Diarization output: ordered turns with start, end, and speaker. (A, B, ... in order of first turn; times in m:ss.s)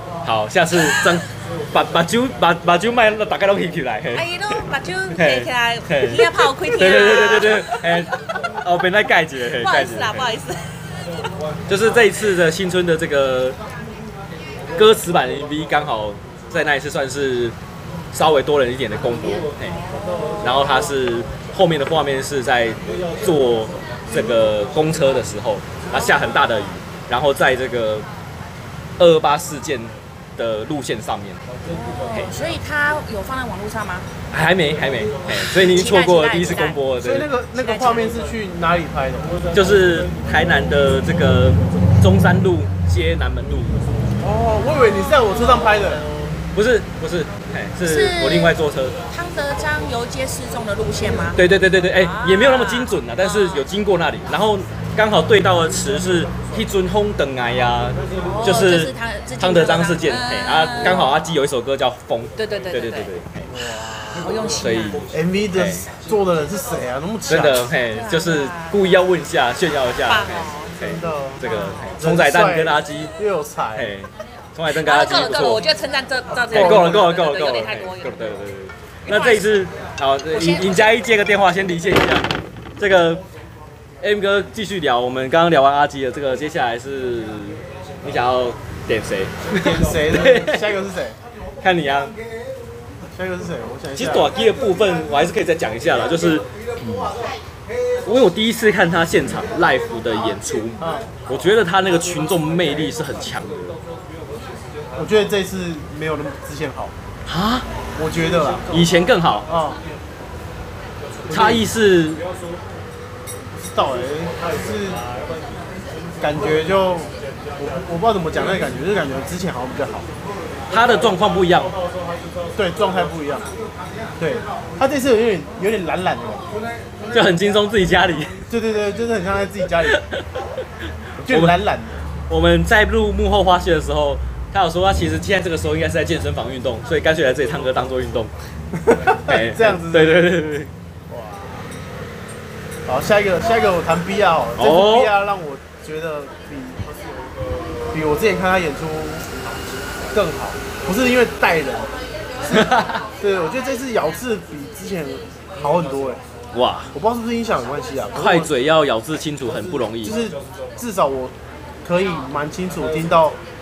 0:00.2-0:04.2 A
0:04.1-0:08.0 B
0:05.1-0:10.3 A
0:09.6-0:10.7 B
0:11.7-0:13.6 A
0:14.8-0:17.5 A
0:18.1-0:19.8 A
0:19.9-0:20.5 B
0:20.4-0:28.0 A
0:29.0-0:31.4 A
0:31.7-0:34.0 B
0:34.3-0:37.3 A
0:35.4-0:36.8 B
0:37.0-0:39.3 C
0:37.5-0:38.1 B
0:39.5-0:43.8 A
0:44.2-0:46.1 C
0:45.1-0:45.5 B
0:46.5-0:49.0 A
0:47.8-0:48.5 B
0:49.1-0:51.4 B
0:51.3-1:03.4 A
0:51.9-0:53.6 B
0:58.2-1:01.1 B
1:02.4-1:03.1 B
1:03.5-1:04.3 C
1:04.2-1:05.0 B
1:04.6-1:05.8 A
1:05.1-1:07.7 C
1:07.3-1:13.1 A
1:07.8-1:09.0 B
1:10.1-1:10.7 B
1:10.8-1:11.4 C
1:11.4-1:11.9 B
1:12.0-1:13.9 C
1:13.7-1:15.6 A
1:14.8-1:18.3 B
1:16.5-1:22.3 A
1:16.5-1:17.0 C
1:19.0-1:19.4 B
1:20.3-1:21.0 B
1:22.8-1:23.2 A
1:24.0-1:30.7 A
1:29.5-1:31.2 C
1:31.6-1:32.1 A
1:33.1-1:34.3 C
1:34.0-1:36.4 A
1:38.0-1:43.8 A
1:40.8-1:41.1 C
1:45.0-1:46.9 C
1:47.3-1:47.6 A
1:48.0-1:48.7 C
1:48.7-1:49.5 A
1:49.5-1:49.8 C
1:51.3-1:51.6 C
1:51.3-1:52.2 A
1:53.5-1:55.0 C
1:56.2-2:00.1 C
2:00.7-2:01.7 A
2:02.6-2:03.5 C
2:04.2-2:06.4 C
2:07.1-2:08.4 A
2:08.5-2:10.0 C
2:09.9-2:10.2 A
2:11.2-2:12.0 C
2:11.3-2:11.6 A
2:12.3-2:18.3 A
2:18.8-2:20.2 C
2:19.2-2:20.7 A
2:21.1-2:21.7 C
2:22.8-2:26.8 C
2:24.6-2:25.1 A
2:27.9-2:29.2 C
2:30.1-2:31.9 C
2:32.4-2:36.2 C
2:32.5-2:33.0 A
2:36.5-2:36.9 A
2:36.9-2:38.5 C
2:38.2-2:40.2 A
2:39.9-2:43.4 C